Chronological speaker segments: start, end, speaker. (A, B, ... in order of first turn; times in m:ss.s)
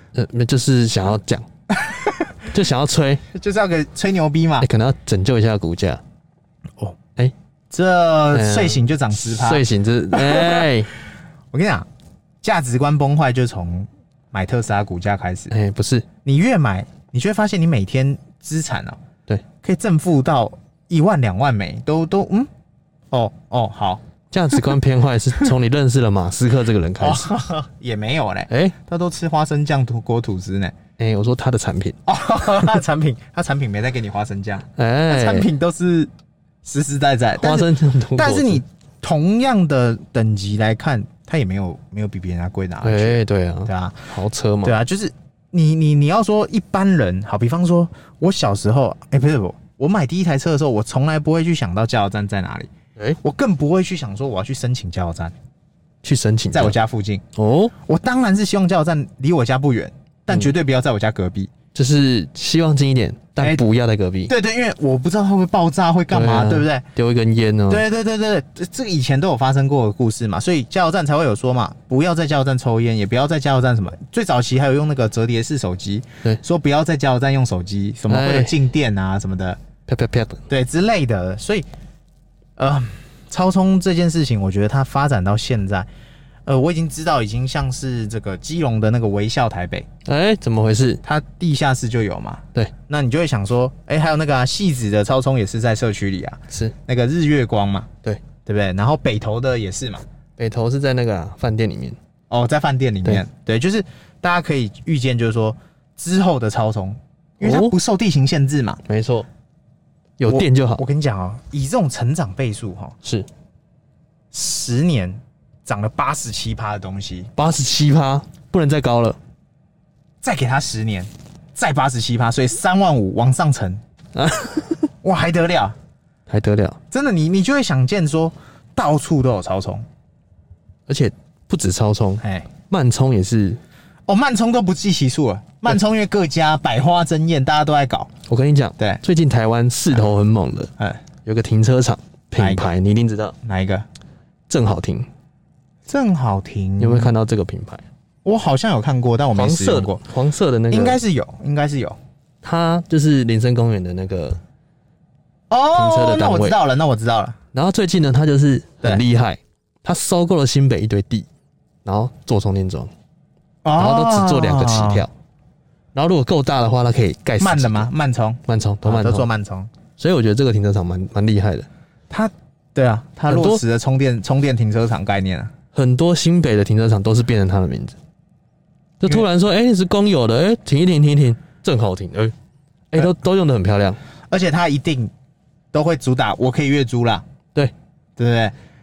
0:00.2-0:01.5 A
0:01.7-0:02.4 B
0:02.5-0:03.2 A
0:03.3-0:04.7 B
0:04.6-0:06.0 A
0:07.7-0:10.7 B
0:08.3-0:10.9 A
0:11.5-0:11.9 B
0:12.4-0:15.5 B
0:15.5-0:16.1 A
0:16.2-0:19.0 B
0:19.6-0:22.5 B
0:23.1-0:24.0 B
0:24.3-0:27.3 A
0:27.0-0:30.8 B
0:28.5-0:28.8 A
0:31.0-0:32.0 A
0:32.1-0:36.1 B
0:34.7-0:35.5 A
0:36.6-0:44.1 B
0:37.4-0:38.6 A
0:42.8-0:44.8 A
0:44.6-0:55.3 B
0:56.0-0:56.8 A
0:56.5-0:57.2 B
0:57.4-0:57.7 A
0:57.8-1:01.5 B
1:01.7-1:04.3 A
1:04.3-1:06.9 B
1:06.1-1:07.8 A
1:07.7-1:19.6 B
1:18.1-1:18.6 A
1:19.9-1:20.4 A
1:20.5-1:21.7 B
1:22.6-1:25.9 B
1:26.5-1:29.9 B
1:30.0-1:31.0 A
1:31.0-1:37.9 B
1:38.4-1:40.0 B
1:40.4-1:42.0 A
1:42.3-1:48.8 B
1:47.4-1:47.8 A
1:48.9-1:49.3 A
1:50.2-1:50.8 A
1:50.3-1:53.0 B
1:53.0-1:53.3 A
1:54.3-1:57.3 B
1:57.4-1:59.2 A
2:00.2-2:03.8 B
2:04.2-2:04.9 A
2:05.0-2:05.8 B
2:06.3-2:06.8 A
2:06.9-2:09.9 B
2:10.9-2:13.6 A
2:12.2-2:12.5 B
2:14.1-2:18.1 B
2:18.3-2:20.7 A
2:21.2-2:23.4 A
2:22.4-2:22.8 B
2:23.4-2:23.9 B
2:24.5-2:25.1 A
2:25.9-2:27.1 B
2:26.8-2:27.8 A
2:28.2-2:30.0 B
2:29.4-2:31.0 A
2:30.7-2:32.0 B
2:32.4-2:34.4 A
2:35.5-2:37.4 B
2:35.7-2:36.6 A
2:37.5-2:41.3 A
2:41.8-2:42.9 A
2:43.6-2:45.1 B
2:43.8-2:45.1 A
2:45.9-2:47.9 A
2:47.4-2:49.7 B
2:48.5-2:49.3 A
2:50.0-2:51.7 A
2:52.1-2:55.5 B
2:53.3-2:53.6 A
2:55.7-2:58.0 A
2:59.0-3:02.3 A
3:02.9-3:04.0 A
3:04.3-3:05.1 B
3:05.7-3:07.2 B
3:08.2-3:08.5 B